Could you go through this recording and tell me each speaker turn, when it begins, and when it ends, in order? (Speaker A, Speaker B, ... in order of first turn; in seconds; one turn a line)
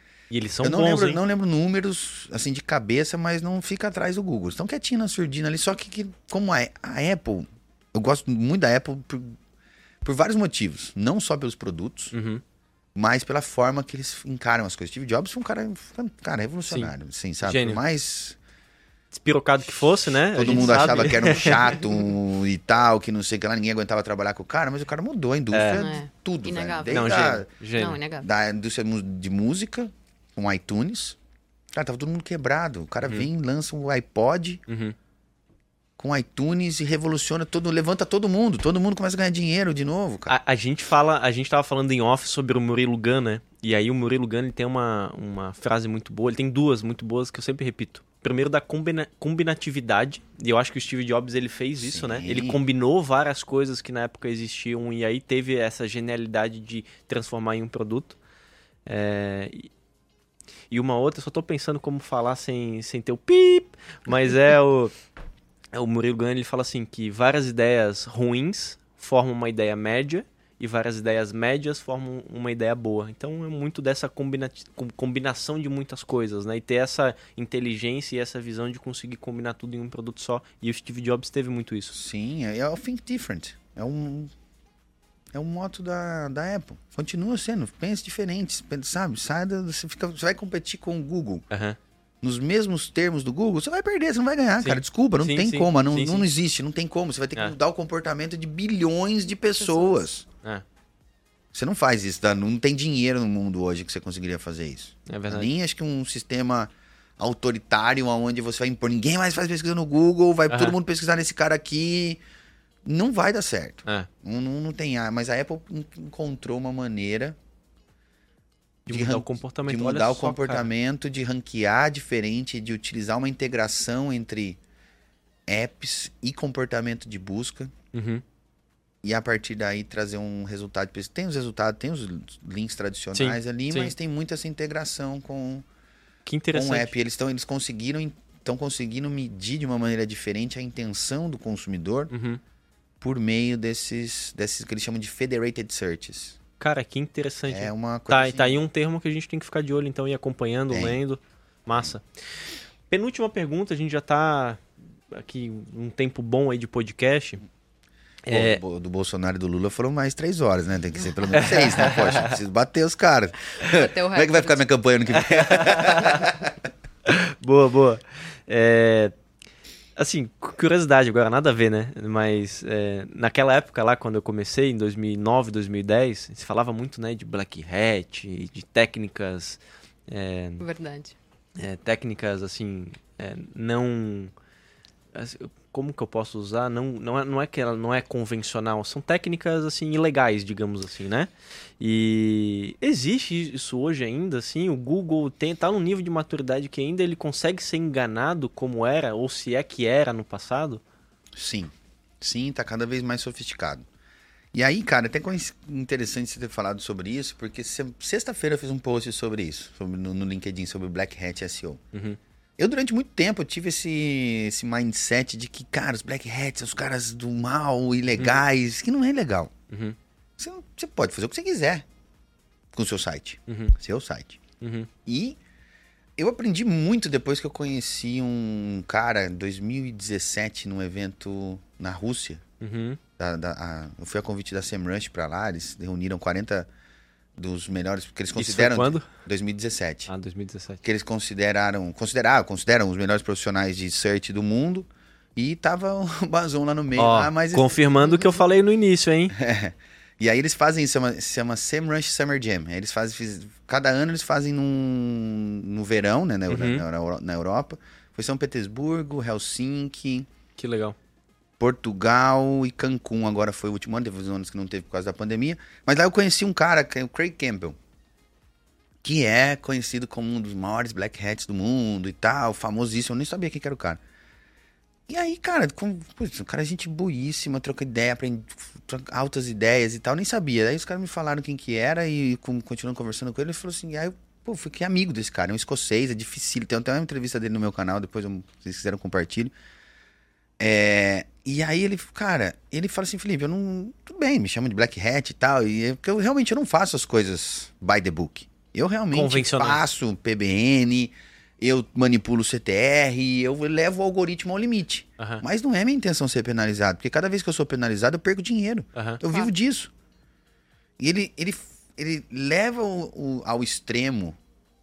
Speaker A: 0.3-1.2
Speaker B: 0.6-9.4
Speaker B: 10.0-12.1
Speaker A: 12.1-12.4
Speaker B: 12.9-18.4
Speaker A: 16.7-16.9
Speaker A: 17.4-17.8
Speaker A: 19.1-22.0
Speaker B: 20.2-27.5
Speaker A: 25.5-25.9
Speaker C: 25.8-27.2
Speaker A: 26.9-28.0
Speaker C: 27.8-28.3
Speaker B: 28.2-31.2
Speaker B: 31.7-34.6
Speaker A: 33.0-33.3
Speaker A: 34.7-35.0
Speaker B: 36.0-40.4
Speaker A: 40.3-58.2
Speaker B: 51.8-52.6
Speaker A: 58.9-59.7
Speaker A: 60.7-65.0
Speaker A: 65.7-82.0
Speaker B: 81.9-84.3
Speaker B: 85.3-91.4
Speaker A: 91.5-91.8
Speaker B: 92.2-100.3
Speaker A: 94.6-96.3
Speaker B: 101.5-112.2
Speaker A: 105.1-105.5
Speaker A: 110.5-110.8
Speaker B: 112.8-117.4
Speaker B: 118.9-124.6
Speaker A: 118.9-120.7
Speaker B: 125.5-127.7
Speaker A: 127.9-128.2
Speaker B: 129.0-135.7
Speaker A: 133.2-133.9
Speaker A: 136.3-136.9
Speaker B: 136.5-142.1
Speaker A: 142.1-142.4
Speaker B: 143.0-146.4
Speaker A: 146.6-152.1
Speaker B: 147.5-148.6
Speaker B: 150.7-151.0
Speaker A: 152.9-157.4
Speaker A: 158.3-158.6
Speaker B: 158.3-166.6
Speaker A: 161.3-162.4
Speaker C: 163.6-164.6
Speaker A: 165.1-166.4
Speaker A: 167.1-169.1
Speaker A: 170.0-180.6
Speaker C: 180.6-181.2
Speaker A: 181.6-184.3
Speaker A: 185.1-191.3
Speaker A: 191.8-200.8
Speaker B: 201.3-203.9
Speaker B: 204.5-211.8
Speaker A: 211.9-212.2
Speaker B: 212.6-219.5
Speaker A: 219.7-220.0
Speaker B: 220.4-221.8
Speaker B: 222.7-224.4
Speaker A: 223.5-223.7
Speaker A: 224.6-224.9
Speaker B: 225.1-225.4
Speaker B: 226.2-232.4
Speaker A: 232.6-233.0
Speaker B: 233.2-236.7
Speaker B: 237.4-240.1
Speaker A: 238.4-239.1
Speaker A: 240.1-240.8
Speaker B: 240.8-247.8
Speaker A: 247.0-249.3
Speaker B: 249.3-260.3
Speaker A: 256.5-256.9
Speaker A: 260.6-261.0
Speaker B: 261.6-267.8
Speaker B: 269.0-274.0
Speaker B: 275.1-289.5
Speaker B: 290.6-309.9
Speaker A: 299.1-299.8
Speaker A: 305.2-305.4
Speaker C: 309.3-309.5
Speaker B: 311.0-314.4